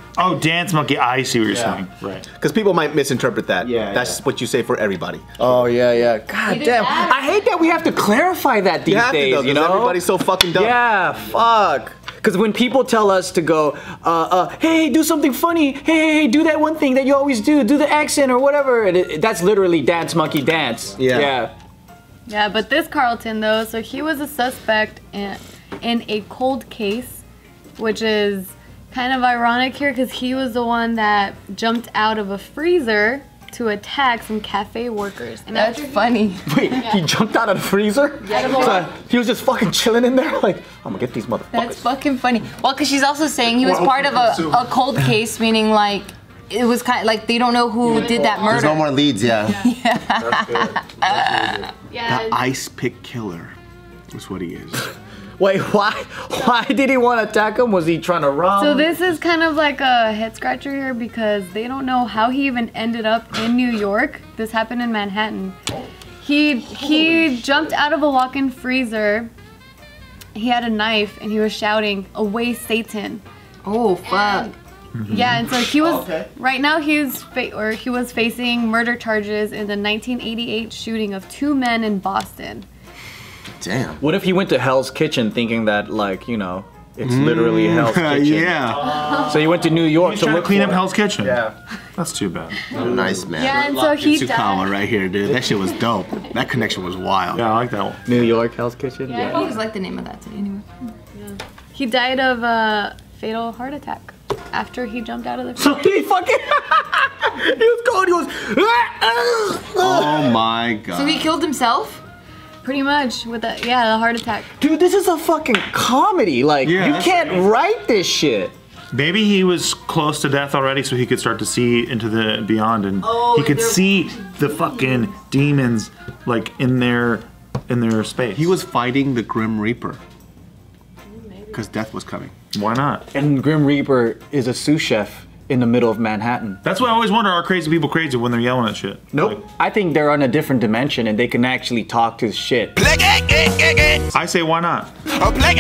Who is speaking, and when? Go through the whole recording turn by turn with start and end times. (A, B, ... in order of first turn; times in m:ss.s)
0:00.2-0:02.3 A
0:02.4-0:02.9 B
0:02.5-0:05.2 C
0:03.6-0:04.2 D
0:03.7-0:04.2 B
0:05.4-0:21.5 E
0:06.4-0:07.4 F
0:08.9-0:10.7 C
0:21.0-0:21.3 C
0:22.3-0:27.2 B
0:27.8-0:36.1 B
0:35.5-0:36.5 F
0:36.5-0:41.9 E
0:38.2-0:38.9 F
0:38.3-0:38.8 B
0:41.5-0:51.7 F
0:43.7-0:44.6 A
0:47.8-0:48.5 E
0:48.4-0:49.6 D
0:50.4-0:50.7 A
0:51.9-0:52.5 B
0:52.1-0:53.5 C
0:54.1-0:54.8 C
0:55.4-0:59.0 E
0:58.6-1:05.5 B
1:06.2-1:09.3 B
1:06.8-1:07.6 F
1:10.4-1:13.2 B
1:13.6-1:14.5 F
1:14.9-1:15.4 A
1:15.1-1:22.6 B
1:15.8-1:16.2 D
1:23.6-1:24.0 D
1:24.0-1:31.5 E
1:27.0-1:28.9 C
1:28.9-1:29.3 A
1:30.0-1:31.4 A
1:32.0-1:32.8 A
1:32.7-1:33.7 D
1:32.8-1:37.4 C
1:33.4-1:35.1 B
1:37.3-1:38.0 A
1:38.0-1:39.5 E
1:39.2-1:40.9 F
1:41.3-1:45.8 B
1:45.6-1:50.4 E
1:49.8-1:51.2 C
1:50.9-1:52.0 F
1:52.6-1:54.4 B
1:54.6-1:58.6 E
1:56.6-1:57.3 C
1:58.9-2:08.5 A
2:03.0-2:04.1 F
2:08.4-2:10.0 C
2:11.2-2:12.3 B
2:11.5-2:12.3 C
2:12.5-2:13.1 A
2:13.1-2:16.6 E
2:16.6-2:19.4 A
2:19.1-2:22.8 E
2:24.1-2:24.9 A